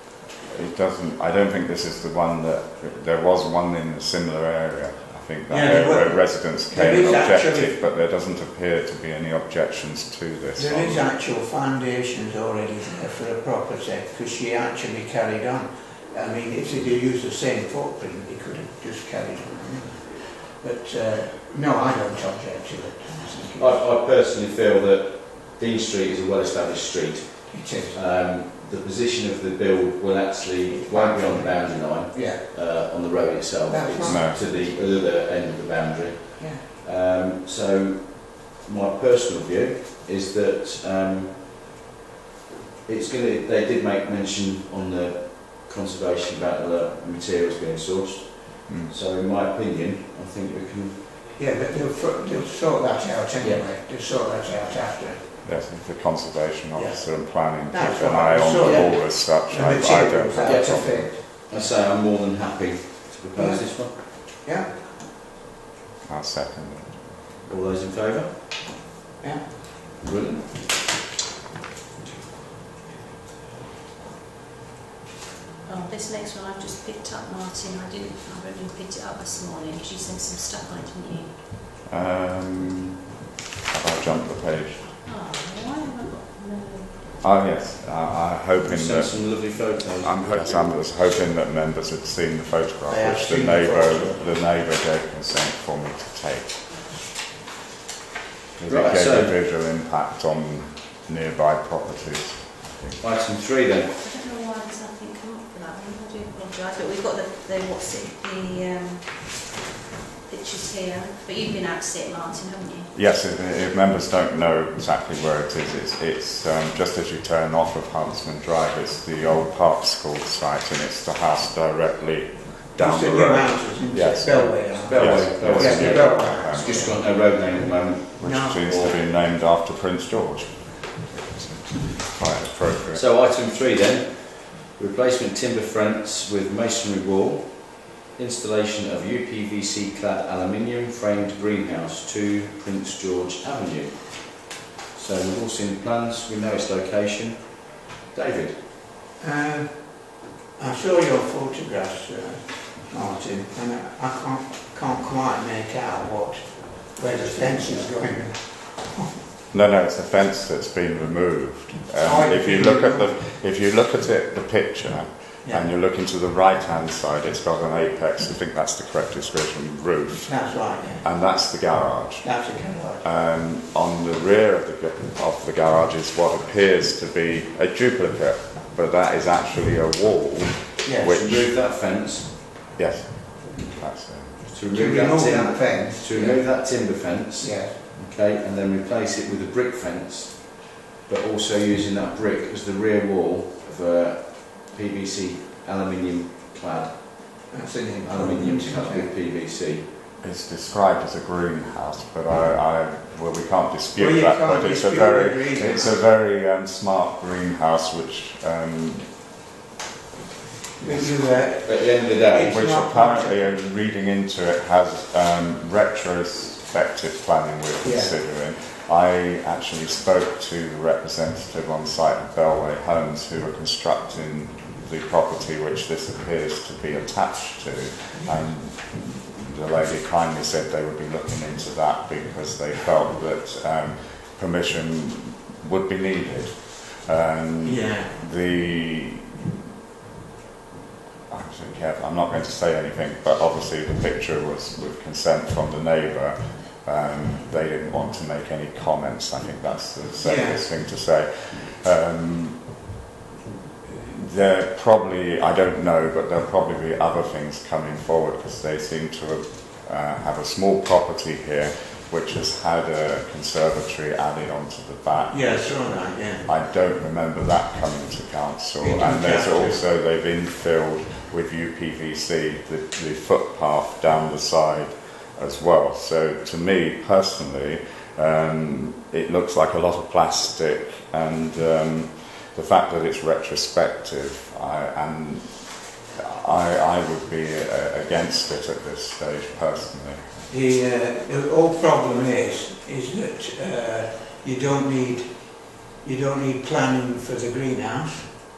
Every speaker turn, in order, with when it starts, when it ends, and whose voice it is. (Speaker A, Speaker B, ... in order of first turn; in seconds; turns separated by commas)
Speaker A: 0.5-11.1, Speaker B: 5.5-7.7, Speaker B: 10.6-23.9, Speaker C: 23.6-41.6, Speaker B: 27.5-28.0, Speaker B: 30.7-32.4, Speaker B: 33.6-34.9, Speaker A: 34.0-34.4, Speaker B: 36.4-36.6, Speaker C: 42.9-51.0, Speaker A: 48.7-48.9, Speaker B: 51.4-55.4, Speaker C: 53.4-53.6, Speaker A: 55.4-61.1, Speaker B: 56.7-61.5, Speaker C: 60.4-63.9, Speaker B: 63.3-64.8, Speaker A: 66.0-67.4, Speaker C: 67.5-68.3, Speaker C: 70.0-70.7, Speaker D: 75.7-81.4, Speaker A: 81.9-82.9, Speaker A: 83.7-84.9, Speaker D: 85.0-87.2, Speaker A: 87.2-89.3, Speaker C: 88.6-90.6, Speaker A: 90.0-96.7, Speaker B: 92.9-94.3, Speaker A: 98.5-103.0, Speaker C: 98.7-99.3, Speaker C: 103.0-103.9, Speaker D: 103.9-109.5, Speaker D: 110.2-112.9, Speaker A: 112.9-127.0, Speaker B: 122.8-127.0, Speaker C: 124.7-129.0, Speaker A: 128.2-133.0, Speaker B: 128.2-128.6, Speaker C: 132.9-148.6, Speaker B: 149.2-159.1, Speaker C: 157.0-158.2, Speaker A: 159.5-181.5, Speaker B: 162.0-163.2, Speaker B: 165.4-165.7, Speaker B: 170.3-171.1, Speaker B: 172.2-173.0, Speaker B: 180.8-181.1, Speaker C: 181.0-182.3, Speaker A: 182.8-184.5, Speaker C: 184.5-197.5, Speaker B: 184.7-187.8, Speaker B: 197.5-199.1, Speaker C: 198.0-199.9, Speaker A: 200.2-209.2, Speaker B: 203.9-206.0, Speaker B: 210.8-213.4, Speaker A: 210.9-211.1, Speaker C: 211.6-212.5, Speaker A: 212.4-239.4, Speaker B: 217.8-218.2, Speaker B: 237.6-238.2, Speaker A: 241.3-252.8, Speaker B: 250.2-250.6, Speaker A: 254.0-290.3, Speaker B: 265.3-266.5, Speaker B: 268.8-269.8, Speaker B: 290.5-298.4